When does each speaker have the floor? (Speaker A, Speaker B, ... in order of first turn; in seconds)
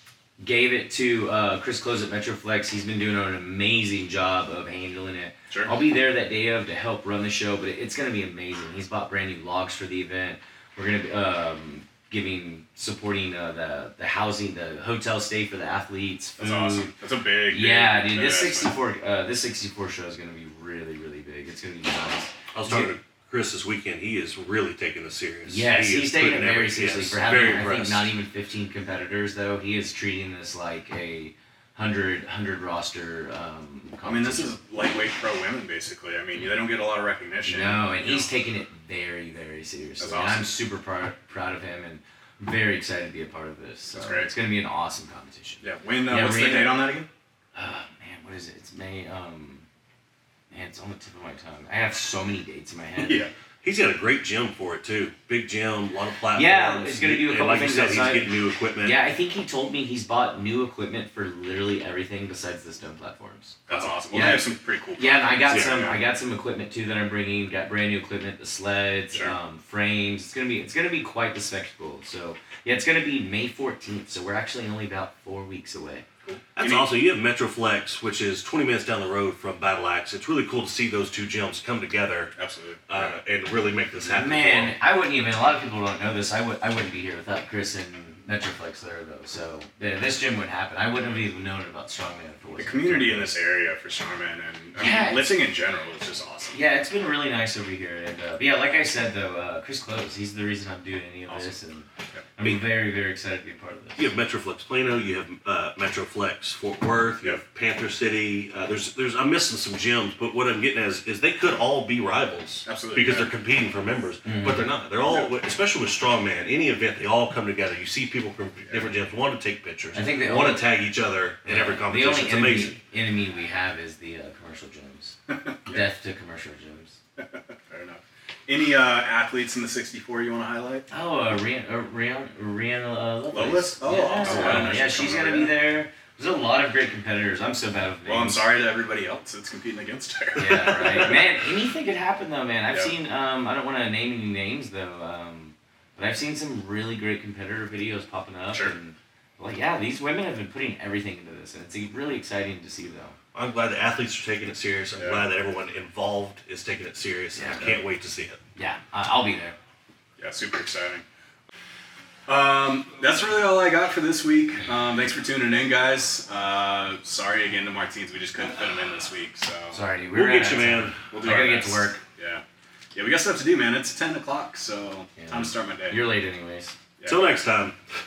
Speaker A: 0.4-16.9, 17.5-22.9, 25.5-34.5, 37.4-46.8, 47.5-49.7, 50.5-53.3, 56.3-63.6, 64.1-76.0, 84.0-93.4, 94.8-95.3, 96.5-104.1, 114.2-114.7, 119.9-120.7, 121.4-127.0, 130.9-138.4, 140.4-153.2, 157.4-157.8, 158.6-159.6, 169.7-172.0, 175.2-176.8
Speaker B: 16.4-18.7, 34.0-38.3, 40.0-40.5, 43.9-44.3, 45.6-47.1, 53.0-53.3, 63.7-66.0, 76.2-76.9, 82.4-83.2, 92.6-96.6, 112.7-113.3, 115.0-115.3, 127.2-130.9, 133.3-135.5, 138.1-141.2, 155.0-155.3, 160.2-161.0, 162.3-169.8, 171.1-172.4, 172.9-176.0
Speaker C: 22.5-28.1, 53.6-59.0, 63.7-64.4, 65.5-65.9, 76.6-82.3, 82.9-84.7, 104.0-122.8, 134.3-134.6, 140.4-141.2, 153.3-158.4, 170.1-171.0, 177.1-177.8